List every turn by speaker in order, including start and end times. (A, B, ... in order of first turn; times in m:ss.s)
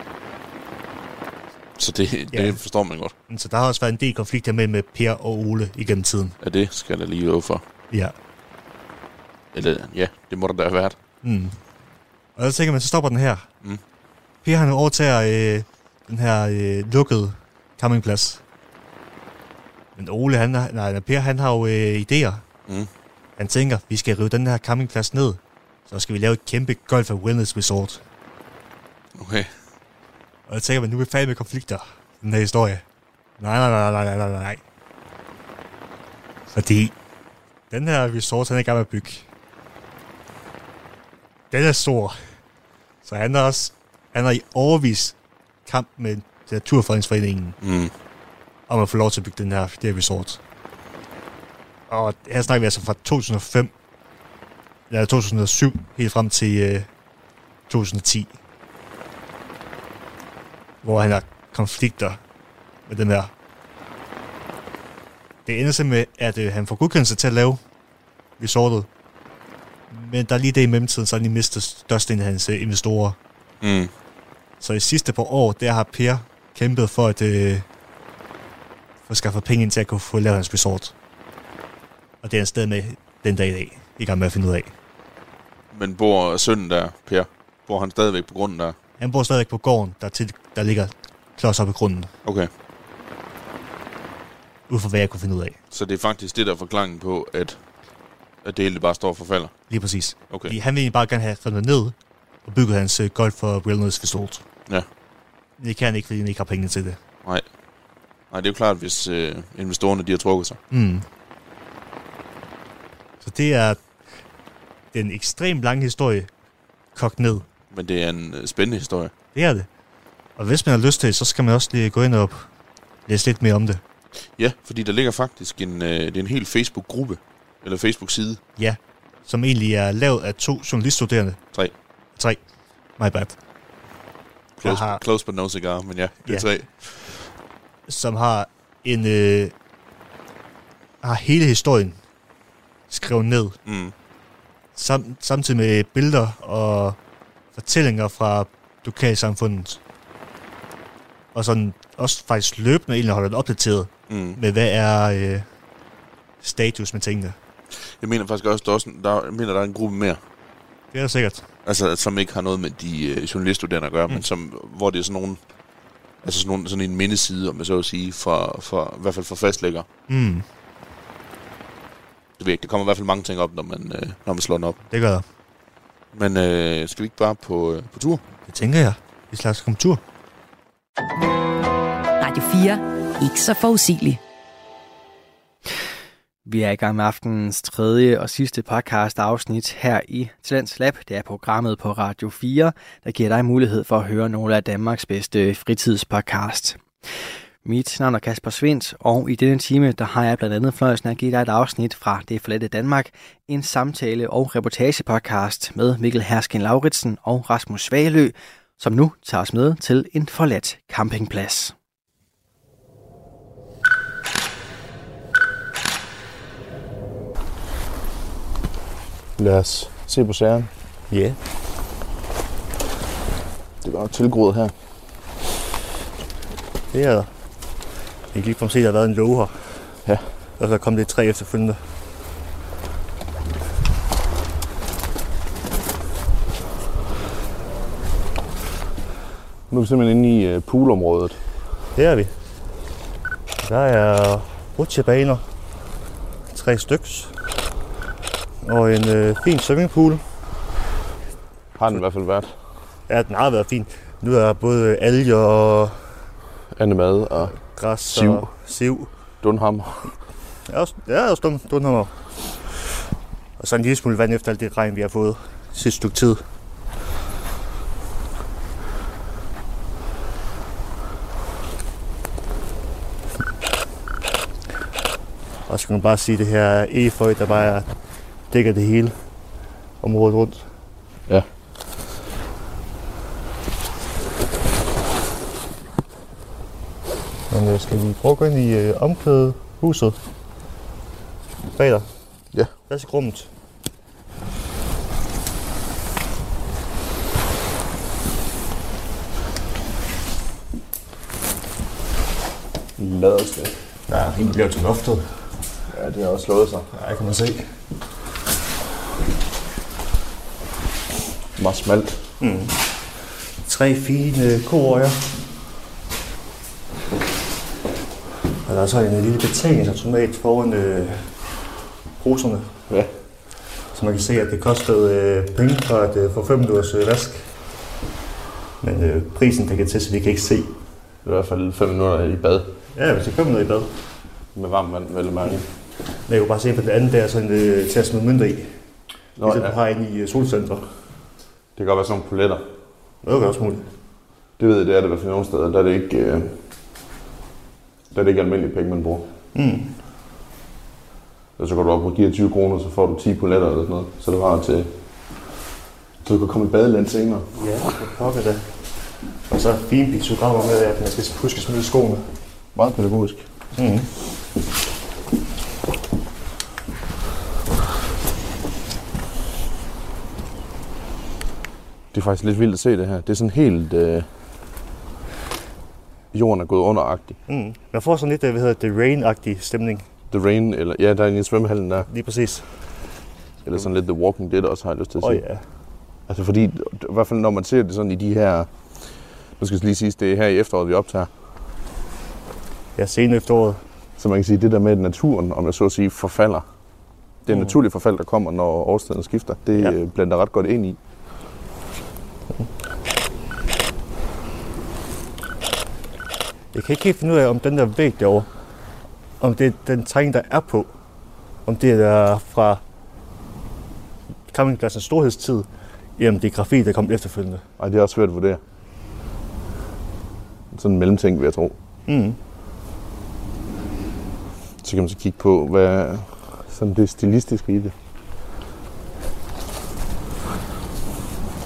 0:01.8-0:03.1 A
0:02.3-0:02.6 B
0:03.3-0:06.4 B
0:06.4-0:07.6 A
0:09.5-0:11.0 A
0:11.2-0:11.6 B
0:12.4-0:13.5 B
0:14.4-0:18.4 B
0:20.0-0:22.4 B
0:23.4-0:28.0 B
0:29.2-0:29.5 A
0:30.5-0:32.8 B
0:33.4-0:34.6 B
0:36.5-0:36.9 B
0:37.7-0:39.3 B
0:41.5-0:42.2 B
0:43.0-0:45.2 B
0:45.7-0:47.6 B
0:47.6-0:47.9 A
0:48.7-0:50.4 B
0:51.9-0:53.7 B
0:54.9-0:56.9 B
0:57.7-0:58.4 B
1:00.8-1:02.2 B
1:02.9-1:03.3 B
1:05.5-1:07.6 B
1:08.4-1:08.9 B
1:09.9-1:13.2 B
1:13.6-1:13.9 A
1:14.6-1:17.6 B
1:19.1-1:20.9 B
1:22.2-1:24.7 B
1:25.7-1:28.8 A
1:29.0-1:32.1 B
1:32.2-1:32.5 A
1:34.7-1:35.6 B
1:35.7-1:37.6 A
1:38.4-1:39.5 A
1:39.7-1:44.4 B
1:40.3-1:40.6 A
1:45.6-1:47.0 B
1:48.3-1:50.6 A
1:50.7-1:51.1 B
1:53.2-1:53.8 B
1:54.9-1:56.3 B
1:57.0-1:57.5 B
1:57.7-1:59.1 A
1:59.4-1:59.7 B
2:00.4-2:02.5 B
2:03.1-2:03.8 B
2:04.4-2:08.4 A
2:08.6-2:11.4 B
2:12.2-2:12.4 B
2:13.0-2:13.4 B
2:14.6-2:17.3 A
2:14.6-2:15.0 B
2:17.9-2:19.5 B
2:21.0-2:22.0 B
2:22.9-2:23.6 B
2:23.7-2:23.9 A
2:24.8-2:27.0 B
2:27.6-2:29.8 B
2:31.3-2:35.5 B
2:34.1-2:34.4 A
2:36.4-2:37.4 B
2:37.9-2:40.2 A
2:40.9-2:41.4 B
2:41.6-2:45.4 A
2:46.2-2:49.9 A
2:50.1-2:50.5 B
2:52.4-2:54.8 A
2:54.9-2:55.2 B
2:56.1-2:58.2 A
2:58.5-3:00.0 B
3:02.2-3:04.2 C
3:06.4-3:16.8 D
3:17.6-3:31.7 D
3:39.4-3:40.7 E
3:41.1-3:41.4 B
3:43.8-3:44.7 E
3:46.9-3:47.3 B
3:48.3-3:49.7 B
3:50.6-3:51.8 B
3:59.7-4:01.4 E
4:02.0-4:02.3 B
4:03.6-4:05.4 B
4:06.5-4:07.3 B
4:08.6-4:10.2 B
4:11.8-4:12.5 E
4:13.1-4:16.0 B
4:16.8-4:17.6 E
4:17.6-4:19.1 B
4:18.1-4:18.5 E
4:19.4-4:20.1 E
4:20.7-4:22.1 B
4:23.6-4:26.4 B
4:35.7-4:37.9 B
4:38.5-4:39.2 B
4:40.0-4:40.7 B
4:47.5-4:50.2 B
4:51.7-4:52.1 B
4:52.9-4:53.5 B
5:03.0-5:03.8 E
5:04.1-5:05.4 B
5:05.9-5:06.9 E
5:06.9-5:07.7 B
5:11.6-5:12.2 E
5:12.4-5:12.8 B
5:13.6-5:15.3 B
5:18.6-5:21.3 B
5:22.2-5:22.8 B
5:23.9-5:27.5 B
5:28.8-5:30.8 B
5:31.2-5:32.7 E
5:33.0-5:34.0 B
5:34.6-5:35.6 E
5:36.3-5:38.8 B
5:39.4-5:39.8 E
5:39.4-5:41.0 B
5:41.8-5:42.6 E
5:43.2-5:43.9 B
5:44.6-5:46.6 E
5:48.1-5:49.3 E
5:49.5-5:49.9 B
5:51.6-5:54.9 E
5:56.2-5:57.5 E
5:57.6-5:58.7 B
5:59.5-6:02.3 B
6:02.8-6:03.4 E
6:03.8-6:04.1 B
6:12.1-6:14.3 E
6:16.3-6:17.4 E
6:17.5-6:20.1 B
6:20.3-6:22.1 E
6:22.1-6:22.7 B
6:23.6-6:25.4 E
6:25.2-6:25.6 B
6:26.3-6:28.7 E
6:29.6-6:31.3 E
6:33.0-6:33.8 B
6:34.2-6:36.7 E
6:37.5-6:41.0 E
6:37.5-6:37.8 B
6:46.7-6:48.5 B
6:49.4-6:50.9 B
6:51.7-6:52.8 B
6:54.5-6:57.6 B
6:57.8-6:58.6 E
7:00.7-7:01.8 E
7:02.1-7:02.4 B
7:04.8-7:07.9 E